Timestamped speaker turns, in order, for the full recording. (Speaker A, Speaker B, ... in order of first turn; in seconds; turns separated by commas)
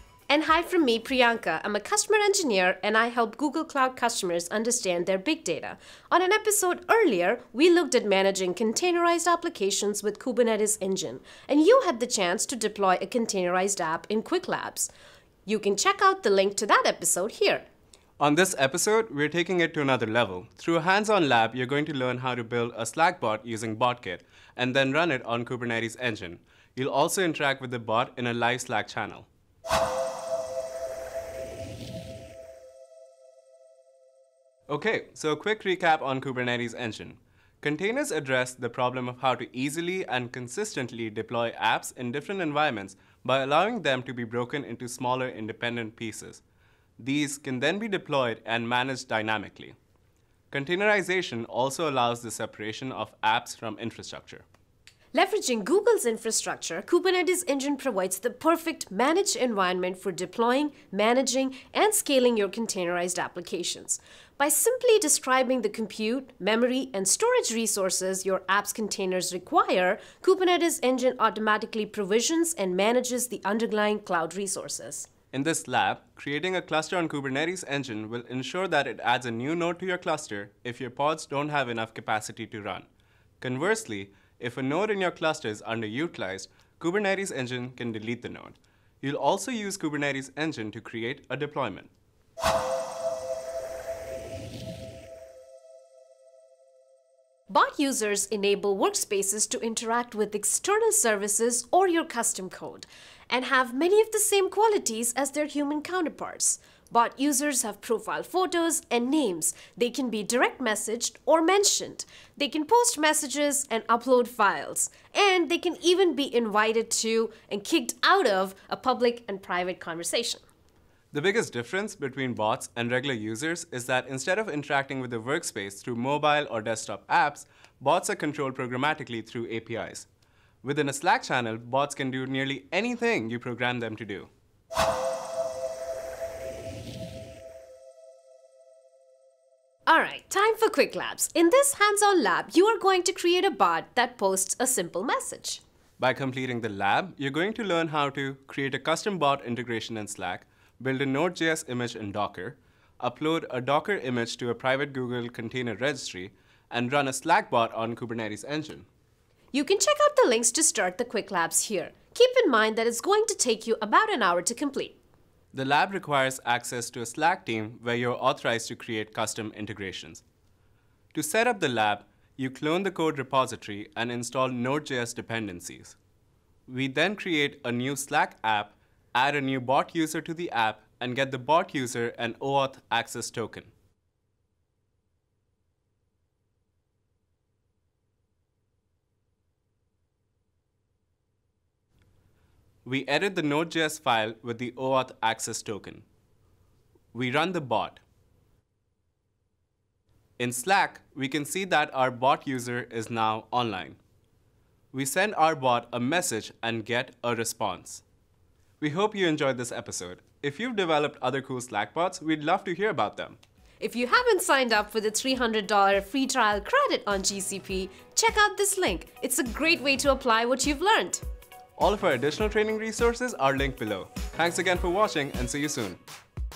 Speaker A: 0.3-14.9, Speaker A: 15.4-17.6, Speaker B: 18.2-29.3, Speaker B: 34.7-46.4, Speaker B: 47.0-49.8, Speaker B: 50.5-54.4, Speaker A: 55.1-75.1, Speaker B: 75.3-82.9, Speaker B: 83.4-91.9, Speaker A: 97.5-120.4, Speaker B: 121.1-130.1, Speaker B: 130.6-134.3, Speaker A: 139.9-145.6, Speaker B: 146.0-158.9, Speaker A: 159.5-165.0, Speaker B: 165.5-170.2, Speaker B: 171.1-176.0, Speaker B: 176.7-183.7, Speaker B: 192.8-196.1, Speaker B: 197.1-198.0, Speaker B: 200.4-204.0, Speaker B: 204.9-208.0, Speaker B: 208.8-213.4, Speaker A: 213.8-221.2, Speaker B: 221.8-226.0